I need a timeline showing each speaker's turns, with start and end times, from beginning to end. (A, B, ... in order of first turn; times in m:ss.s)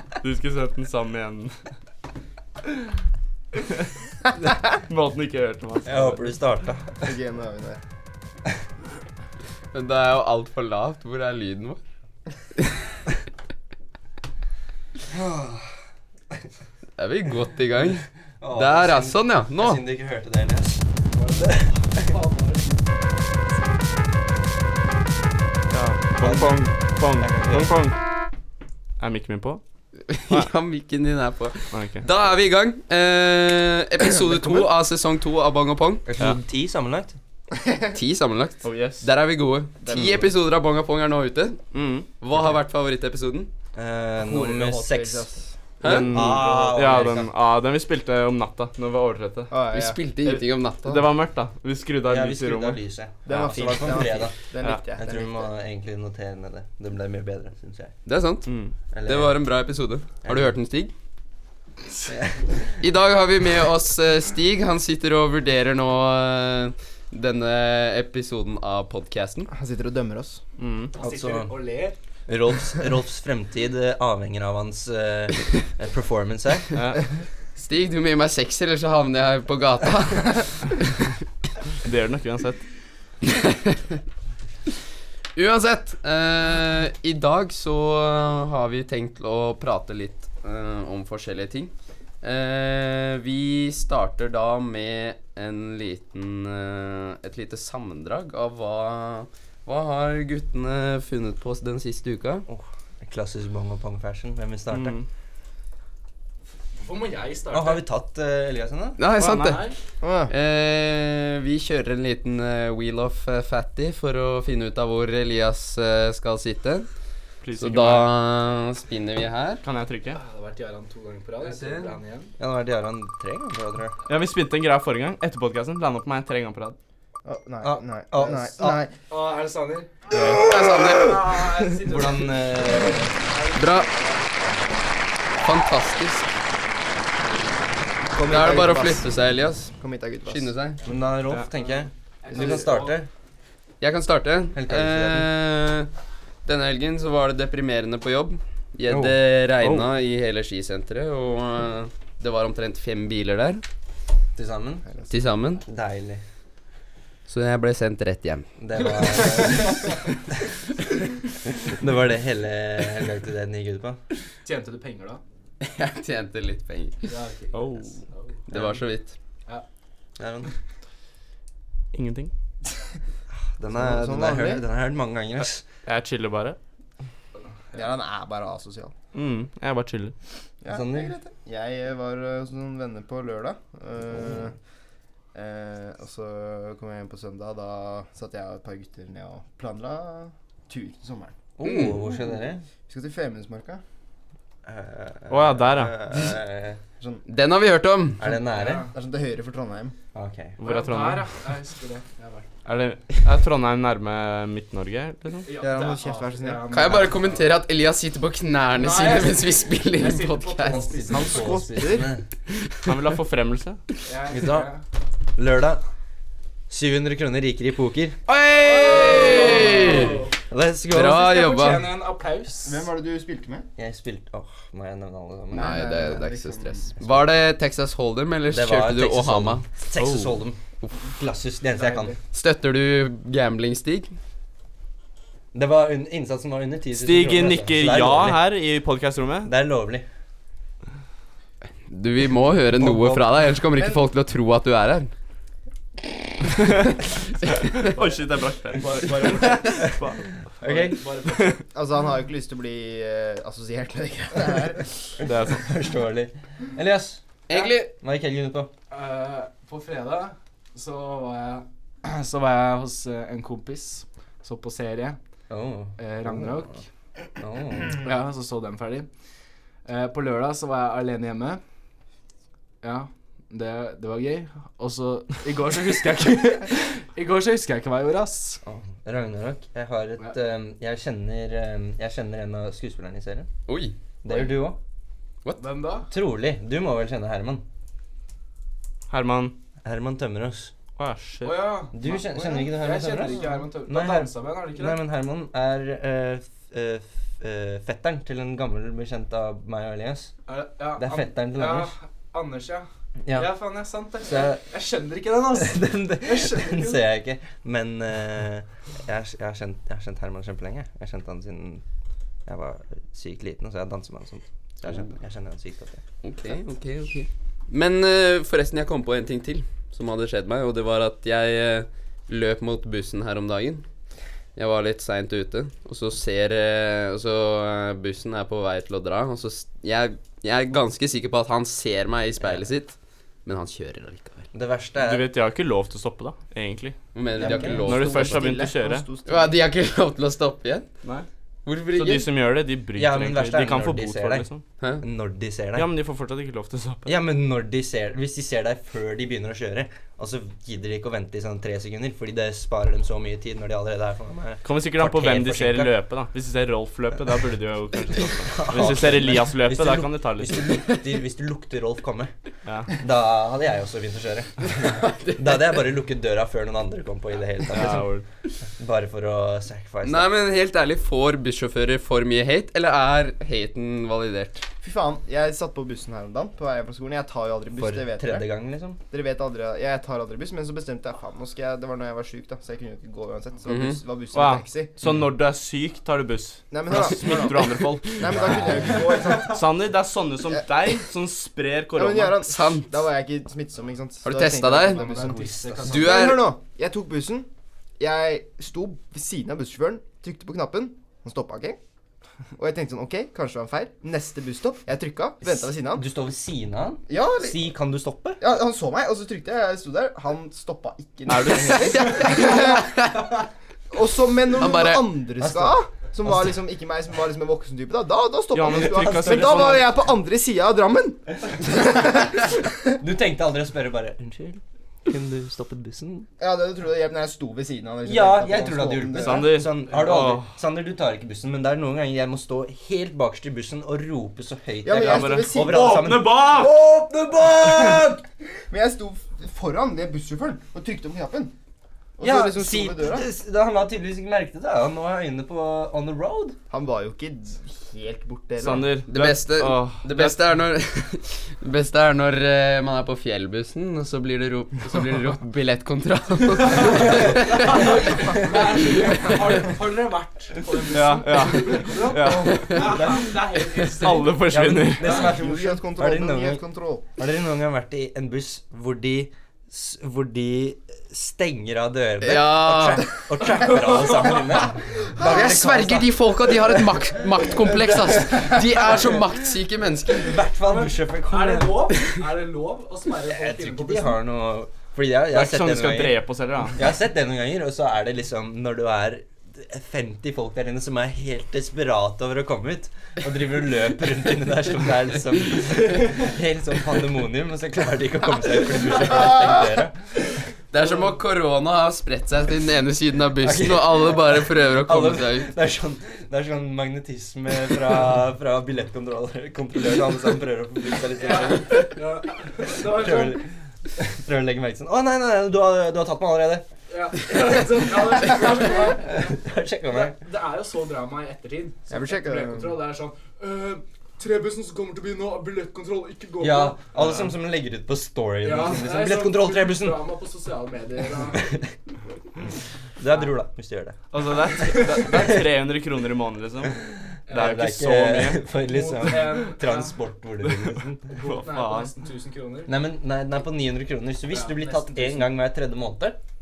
0:00.2-0:01.5 A
0:04.9-0:06.3 A
0:05.8-0:07.1 B
0:07.0-0:07.8 C
0:09.7-0:11.8 D
0:15.1-0:15.7 B
0:17.0-0:19.8 D
0:18.4-0:22.1 B
0:21.1-0:22.8 E
0:25.7-0:28.0 A
0:26.2-0:27.8 B
0:29.0-0:29.6 A
0:30.1-0:36.0 D
0:31.7-0:32.1 A
0:36.0-0:37.2 B
0:37.6-0:37.9 C
0:37.9-0:41.6 D
0:38.6-0:39.0 A
0:39.8-0:40.3 C
0:41.7-0:42.1 A
0:42.2-0:43.5 D
0:43.7-0:45.3 B
0:44.2-0:45.6 C
0:45.8-0:46.4 D
0:45.8-0:49.5 A
0:45.9-0:47.3 B
0:49.5-0:50.0 C
0:49.7-0:51.0 D
0:50.2-0:52.8 A
0:52.0-0:54.4 B
0:53.2-0:55.5 C
0:54.9-0:57.9 B
0:58.0-1:00.9 D
0:58.5-0:58.7 A
0:58.9-0:59.4 B
1:00.2-1:00.5 B
1:02.1-1:02.6 B
1:02.8-1:09.5 D
1:09.5-1:10.4 C
1:10.6-1:10.9 A
1:11.0-1:12.0 E
1:11.0-1:11.5 B
1:12.3-1:16.8 B
1:16.7-1:17.0 A
1:17.6-1:20.8 D
1:21.8-1:22.6 A
1:23.3-1:24.0 D
1:25.3-1:42.4 D
1:42.5-1:44.9 B
1:44.7-1:45.0 A
1:46.8-1:47.8 E
1:47.5-1:49.0 B
1:49.0-1:49.7 D
1:49.2-1:49.8 E
1:50.0-1:50.3 C
1:50.3-1:56.9 D
1:57.4-1:58.1 A
1:57.6-1:59.6 D
1:59.6-2:00.2 A
2:00.1-2:02.3 E
2:01.4-2:02.0 D
2:02.4-2:04.0 B
2:04.1-2:06.8 A
2:07.2-2:08.9 C
2:07.6-2:08.8 B
2:09.1-2:09.9 E
2:10.1-2:11.0 B
2:10.4-2:11.2 D
2:11.0-2:14.6 E
2:11.8-2:13.1 B
2:13.5-2:13.9 D
2:15.4-2:16.2 D
2:18.1-2:19.2 C
2:18.3-2:19.7 D
2:19.8-2:20.5 C
2:20.2-2:20.8 D
2:20.8-2:23.1 B
2:22.2-2:23.0 E
2:23.8-2:25.9 D
2:24.5-2:25.3 B
2:26.4-2:33.6 D
2:28.9-2:29.2 B
2:34.4-2:34.8 B
2:35.1-2:35.6 D
2:35.6-2:36.2 B
2:37.3-2:39.6 D
2:38.6-2:40.0 B
2:41.6-2:44.0 B
2:44.4-2:45.2 E
2:45.6-2:47.1 D
2:47.0-2:48.8 E
2:47.5-2:48.0 A
2:48.5-2:49.1 D
2:50.2-2:50.5 B
2:51.9-2:52.3 A
2:53.6-2:55.6 B
2:53.7-2:54.6 C
2:55.8-2:56.6 A
2:57.7-2:58.9 C
2:59.1-3:00.1 A
3:00.6-3:04.5 C
3:00.7-3:01.1 B
3:04.1-3:04.4 B
3:05.3-3:11.3 C
3:11.6-3:12.6 B
3:11.6-3:11.9 D
3:12.9-3:13.8 C
3:14.6-3:16.8 B
3:15.3-3:16.0 A
3:16.1-3:16.4 C
3:17.0-3:17.2 C
3:17.3-3:18.2 D
3:18.2-3:18.9 B
3:18.4-3:18.9 E
3:18.8-3:19.9 C
3:20.1-3:20.6 B
3:20.6-3:21.3 A
3:20.6-3:22.4 E
3:22.6-3:25.5 A
3:25.4-3:27.5 E
3:25.6-3:27.0 C
3:26.7-3:30.9 D
3:28.7-3:31.5 E
3:30.6-3:32.2 B
3:31.1-3:32.1 C
3:32.8-3:33.8 A
3:34.0-3:34.8 E
3:34.3-3:34.7 B
3:35.4-3:35.8 B
3:36.7-3:38.2 B
3:38.3-3:40.2 D
3:38.6-3:40.3 E
3:39.2-3:41.4 B
3:40.9-3:41.9 D
3:41.2-3:42.8 E
3:42.6-3:43.7 C
3:43.8-3:45.9 B
3:45.5-3:46.9 C
3:45.5-3:51.1 D
3:47.0-3:47.2 B
3:48.5-3:50.6 B
3:51.2-3:52.2 B
3:51.8-3:52.1 C
3:52.3-3:54.1 D
3:55.5-3:58.4 B
3:56.9-3:59.5 A
3:59.4-4:00.0 B
4:01.9-4:05.1 D
4:02.8-4:03.1 B
4:03.7-4:04.0 C
4:07.5-4:07.9 D
4:07.5-4:10.4 A
4:08.8-4:09.8 E
4:10.6-4:11.0 B
4:10.6-4:11.6 E
4:11.3-4:11.5 A
4:11.7-4:15.2 C
4:15.2-4:15.6 A
4:15.2-4:17.2 B
4:17.5-4:17.9 D
4:18.0-4:18.7 B
4:18.9-4:25.2 E
4:25.5-4:26.8 B
4:26.0-4:26.8 E
4:27.4-4:28.0 B
4:28.0-4:29.1 E
4:29.8-4:31.6 E
4:32.8-4:38.6 E
4:38.6-4:43.5 B
4:43.7-4:44.0 D
4:44.2-4:44.8 B
4:45.6-4:46.1 E
4:46.1-4:47.6 B
4:49.1-4:49.6 A
4:49.8-4:50.7 B
4:51.0-4:51.7 A
4:51.4-4:55.0 E
4:51.9-5:00.3 B
5:00.5-5:07.0 E
5:01.0-5:01.9 B
5:03.2-5:03.5 B
5:04.2-5:04.6 B
5:05.5-5:11.8 B
5:12.4-5:16.0 B
5:16.2-5:23.8 D
5:24.6-5:34.5 D
5:32.4-5:32.7 B
5:34.5-5:35.2 B
5:35.0-5:37.0 A
5:37.1-5:38.5 D
5:37.4-5:39.6 C
5:37.4-5:37.9 B
5:37.8-5:39.1 A
5:39.2-5:40.8 D
5:41.6-5:42.3 D
5:41.9-5:44.6 A
5:43.0-5:44.5 B
5:45.0-5:45.9 B
5:45.7-5:47.1 A
5:47.0-5:55.9 B
5:54.6-6:00.7 A
5:58.4-6:02.3 B
6:02.6-6:02.9 A
6:03.0-6:08.1 B
6:04.9-6:05.3 D
6:07.7-6:08.2 A
6:08.8-6:10.3 B
6:10.0-6:14.6 D
6:14.8-6:18.5 C
6:17.8-6:19.0 B
6:19.1-6:24.9 C
6:23.7-6:24.0 D
6:24.3-6:28.7 A
6:26.7-6:29.6 C
6:28.4-6:28.8 B
6:29.4-6:32.4 A
6:31.9-6:41.8 C
6:32.4-6:32.9 D
6:34.2-6:35.1 D
6:34.9-6:36.2 E
6:35.2-6:36.2 B
6:35.9-6:36.6 D
6:42.6-6:46.1 C
6:45.4-6:48.4 B
6:47.1-6:47.7 C
6:48.4-6:53.1 C
6:51.3-6:52.3 A
6:51.5-6:53.3 D
6:53.9-7:02.7 C
6:54.5-6:55.1 D
6:55.4-6:56.5 B
6:58.5-6:59.9 A
7:01.7-7:02.2 B
7:03.0-7:06.3 B
7:06.4-7:09.7 C
7:08.0-7:18.2 B
7:09.1-7:10.5 A
7:14.8-7:16.1 C
7:15.0-7:16.8 A
7:17.4-7:18.1 C
7:18.7-7:21.5 C
7:22.2-7:23.3 C
7:22.2-7:26.6 B
7:26.7-7:29.0 C
7:28.6-7:30.4 A
7:29.1-7:38.6 D
7:36.6-7:44.4 E
7:36.8-7:37.8 B
7:40.9-7:42.9 A
7:44.0-7:45.2 A
7:44.5-7:46.6 B
7:45.0-7:45.3 E
7:45.1-7:47.0 C
7:47.2-7:56.4 B
7:52.2-7:53.2 D
7:53.8-7:54.6 E
7:55.2-8:00.3 D
8:00.1-8:02.0 B
8:00.6-8:04.2 E
8:03.2-8:06.2 B
8:05.3-8:06.8 A
8:06.7-8:20.0 B
8:20.7-8:25.5 D
8:23.4-8:24.3 B
8:24.8-8:32.0 B
8:31.2-8:33.4 E
8:32.6-8:33.4 B
8:34.0-8:36.6 B
8:36.9-8:39.3 E
8:38.4-8:40.2 B
8:39.9-8:46.8 E
8:41.9-8:42.8 C
8:46.4-8:50.0 B
8:48.4-8:51.6 E
8:51.3-8:51.7 B
8:53.0-8:54.0 B
8:54.1-8:56.8 A
8:54.6-8:55.1 E
8:55.1-8:55.4 B
8:57.3-8:57.6 E
8:57.3-9:01.0 B
8:57.3-8:58.4 A
8:58.7-9:00.0 E
9:00.4-9:01.9 A
9:01.1-9:02.7 E
9:02.6-9:06.2 B
9:04.3-9:05.3 E